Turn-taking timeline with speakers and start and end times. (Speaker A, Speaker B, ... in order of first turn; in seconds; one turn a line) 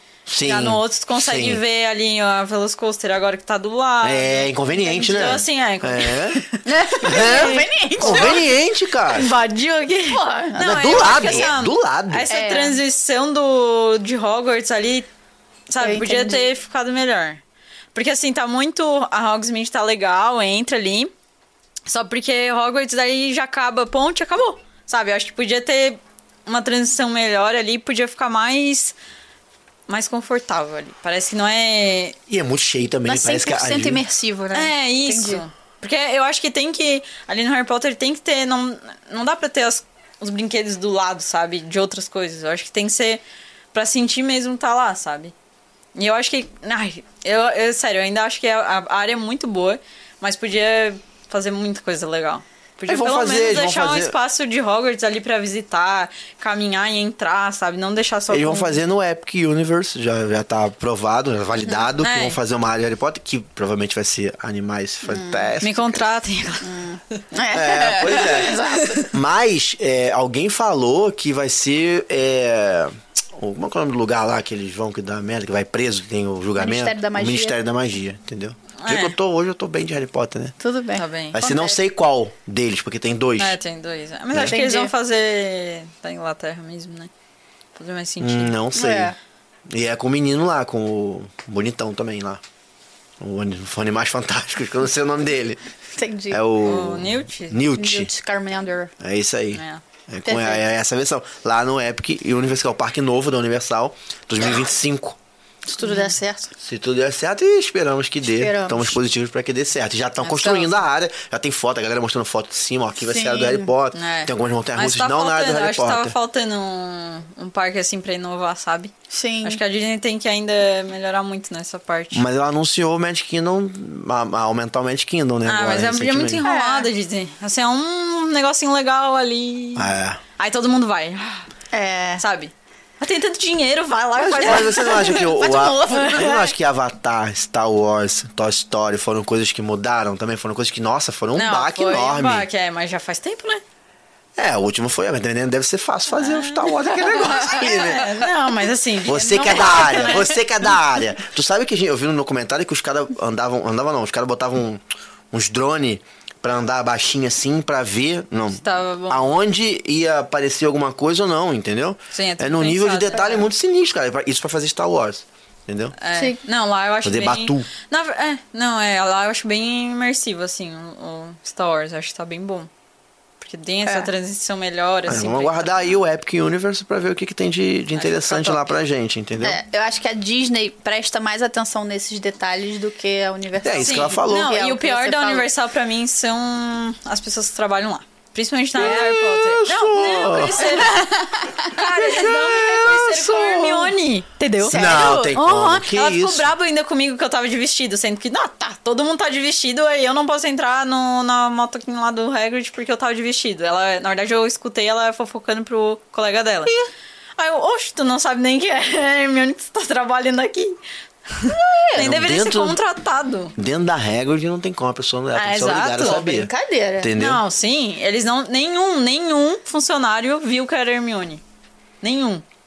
Speaker A: 0.3-1.6
Speaker B: 0.4-8.4
Speaker A: 4.0-6.4
Speaker C: 4.9-5.2
Speaker C: 6.6-8.4
Speaker A: 7.0-9.3
Speaker B: 9.1-15.1
Speaker C: 10.1-11.5
Speaker A: 10.6-12.3
Speaker C: 12.3-12.8
Speaker B: 15.7-17.4
Speaker C: 15.8-16.5
Speaker B: 17.9-21.1
Speaker B: 21.9-28.9
Speaker B: 29.9-32.1
Speaker A: 32.3-34.0
Speaker C: 33.0-35.4
Speaker B: 34.5-45.3
Speaker B: 45.9-58.8
Speaker A: 52.9-54.1
Speaker A: 58.3-66.0
Speaker B: 61.9-62.4
Speaker C: 65.1-65.5
Speaker B: 65.6-66.7
Speaker C: 66.6-69.1
Speaker A: 67.5-68.5
Speaker A: 69.1-80.5
Speaker C: 76.6-77.6
Speaker B: 78.8-79.1
Speaker C: 80.6-81.8
Speaker B: 81.0-81.4
Speaker A: 81.3-83.6
Speaker B: 83.4-87.1
Speaker C: 84.4-84.9
Speaker B: 87.8-88.5
Speaker A: 88.2-89.1
Speaker C: 88.7-89.2
Speaker A: 89.7-92.4
Speaker A: 93.2-95.6
Speaker C: 95.9-96.4
Speaker A: 96.3-98.1
Speaker B: 96.6-97.6
Speaker C: 97.7-98.9
Speaker A: 99.0-105.2
Speaker B: 99.5-99.8
Speaker C: 100.2-100.6
Speaker C: 105.7-106.5
Speaker B: 105.8-106.2
Speaker A: 106.6-116.1
Speaker C: 108.2-109.0
Speaker B: 110.2-110.7
Speaker C: 113.0-113.7
Speaker B: 113.9-118.9
Speaker C: 119.1-119.6
Speaker B: 119.4-122.2
Speaker A: 122.1-126.4
Speaker B: 125.5-131.5
Speaker C: 126.4-126.9
Speaker A: 129.8-130.2
Speaker C: 131.7-132.2
Speaker B: 132.2-135.2
Speaker C: 134.3-136.4
Speaker A: 134.3-142.5
Speaker B: 141.3-143.6
Speaker A: 144.3-148.2
Speaker B: 146.2-150.3
Speaker A: 149.0-165.9
Speaker C: 149.1-150.3
Speaker B: 158.6-159.3
Speaker B: 162.1-163.5
Speaker B: 166.0-172.7
Speaker A: 167.0-167.7
Speaker B: 173.4-176.0
Speaker A: 175.1-179.6
Speaker B: 177.9-178.7
Speaker C: 179.4-185.5
Speaker A: 183.6-184.5
Speaker B: 183.8-206.7
Speaker A: 188.7-190.8
Speaker C: 190.7-191.8
Speaker A: 191.8-193.9
Speaker C: 194.6-195.4
Speaker A: 194.6-196.5
Speaker B: 207.4-210.8
Speaker B: 211.3-213.5
Speaker C: 211.5-212.0
Speaker A: 211.9-212.8
Speaker A: 213.6-217.4
Speaker B: 215.3-216.2
Speaker C: 216.0-217.1
Speaker B: 217.2-221.4
Speaker B: 222.0-222.4